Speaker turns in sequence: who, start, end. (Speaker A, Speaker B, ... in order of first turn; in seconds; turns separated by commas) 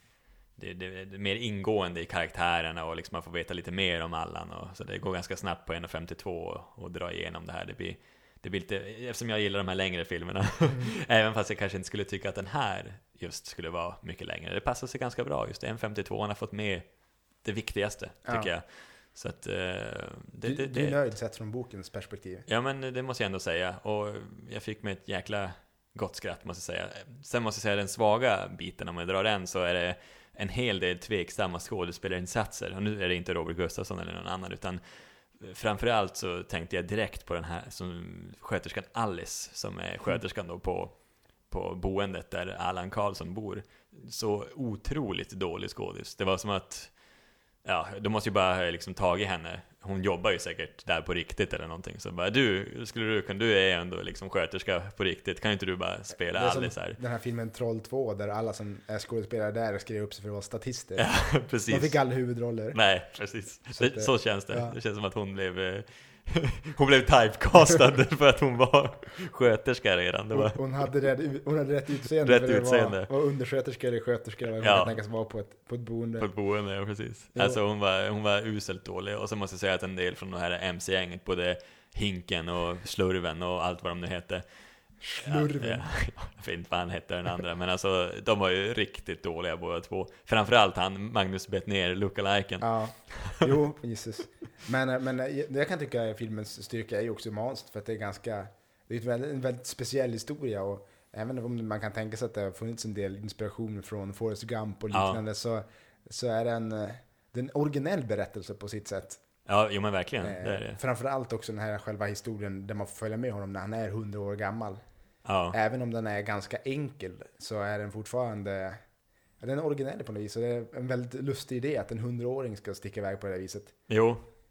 Speaker A: 0.6-16.8, Speaker A: 17.4-21.0, Speaker B: 20.4-22.4, Speaker A: 22.5-34.8, Speaker A: 35.4-41.0, Speaker A: 41.5-46.9, Speaker A: 47.6-57.0, Speaker B: 56.3-61.1, Speaker A: 61.0-62.0, Speaker B: 61.7-62.8, Speaker A: 62.7-70.6, Speaker B: 63.7-64.8, Speaker B: 70.3-76.3, Speaker A: 72.2-73.1, Speaker A: 74.6-74.9, Speaker A: 76.2-84.4, Speaker B: 77.3-77.6, Speaker B: 85.0-85.9, Speaker A: 85.2-93.5, Speaker B: 92.6-109.2, Speaker A: 104.9-105.2, Speaker A: 109.5-110.8, Speaker B: 110.2-114.8, Speaker A: 115.2-115.6, Speaker B: 115.5-118.8, Speaker B: 119.4-123.7, Speaker A: 123.9-124.2